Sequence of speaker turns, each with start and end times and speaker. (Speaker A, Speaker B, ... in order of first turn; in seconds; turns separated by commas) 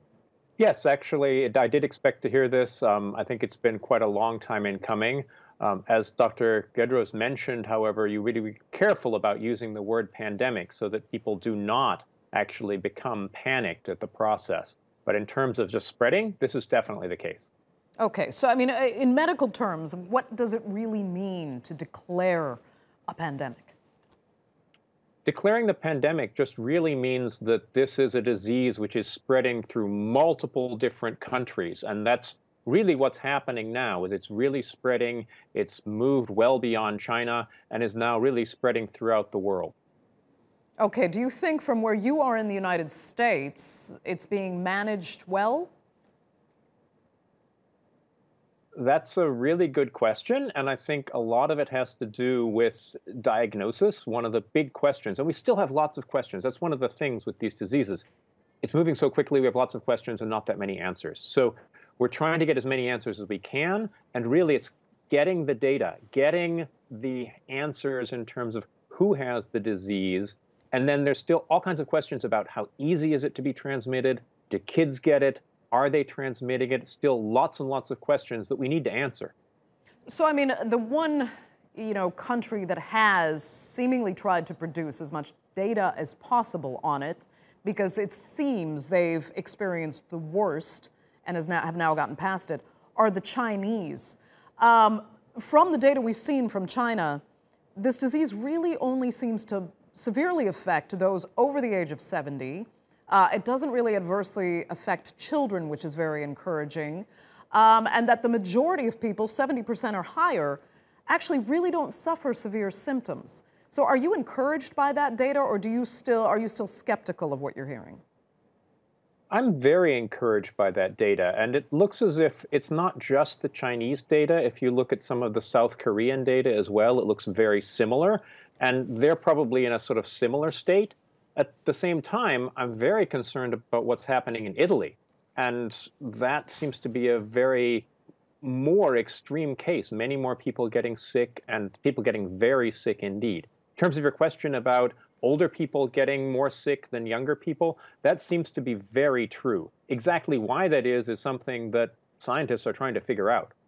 Speaker A: 0.6-17.5, Speaker B: 18.0-23.8, Speaker A: 25.2-39.7, Speaker B: 40.8-45.7, Speaker A: 48.7-58.0, Speaker A: 58.6-79.3, Speaker B: 80.1-97.2, Speaker B: 97.8-118.0, Speaker A: 119.3-137.9, Speaker A: 138.4-153.5